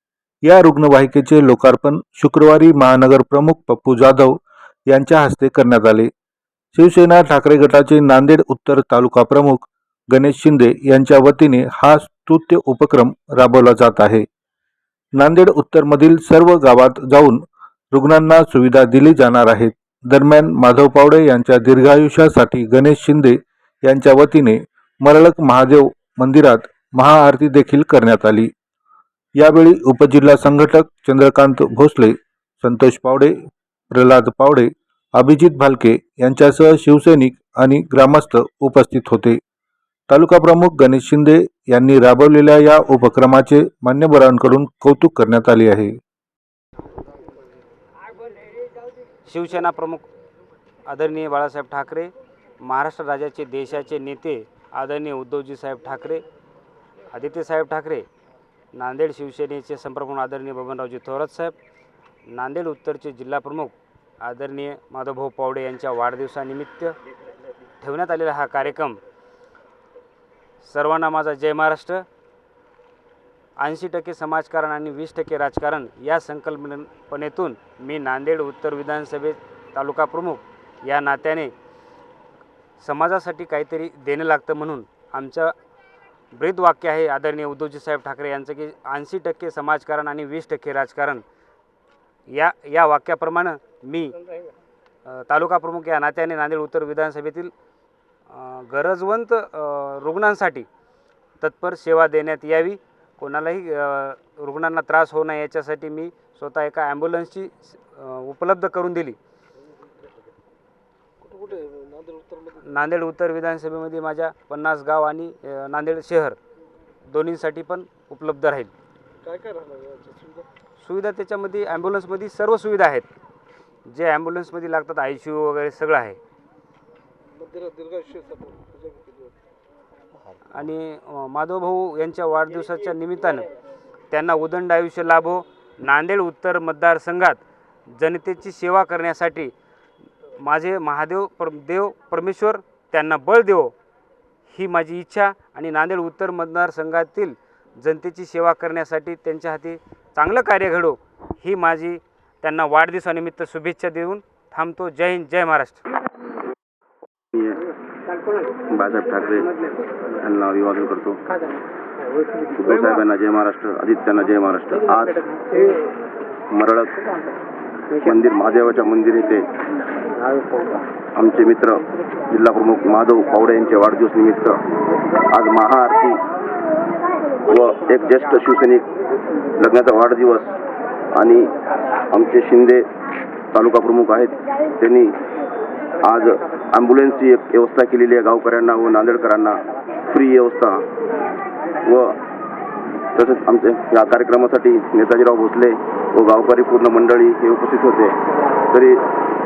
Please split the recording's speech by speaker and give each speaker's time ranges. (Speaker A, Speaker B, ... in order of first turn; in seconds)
Speaker A: 0.4-6.1, 6.8-14.2, 15.2-28.5, 29.4-33.3, 33.9-39.4, 40.1-46.0
Speaker B: 49.2-50.0, 50.9-56.2, 57.1-58.1, 58.7-61.5, 62.3-67.0, 67.8-69.0, 70.6-72.0, 73.6-81.5, 82.8-85.5, 86.3-91.2, 92.3-94.2, 95.0-97.5, 98.3-100.7, 101.4-109.2, 112.6-116.4, 117.0-118.7, 120.8-123.1, 123.9-126.2, 130.5-133.5, 134.1-139.5, 140.3-143.7, 144.5-155.8
Speaker C: 111.2-112.6, 119.2-120.5, 127.3-129.3
Speaker D: 157.3-157.6, 158.7-159.5, 160.1-161.2, 162.5-165.6, 166.5-167.0, 168.0-169.5, 171.1-174.6, 175.3-176.2, 177.4-178.9, 179.6-180.5, 181.2-181.5, 182.1-182.8, 183.5-185.2, 186.0-190.8, 191.8-192.2, 193.1-198.2, 198.7-199.0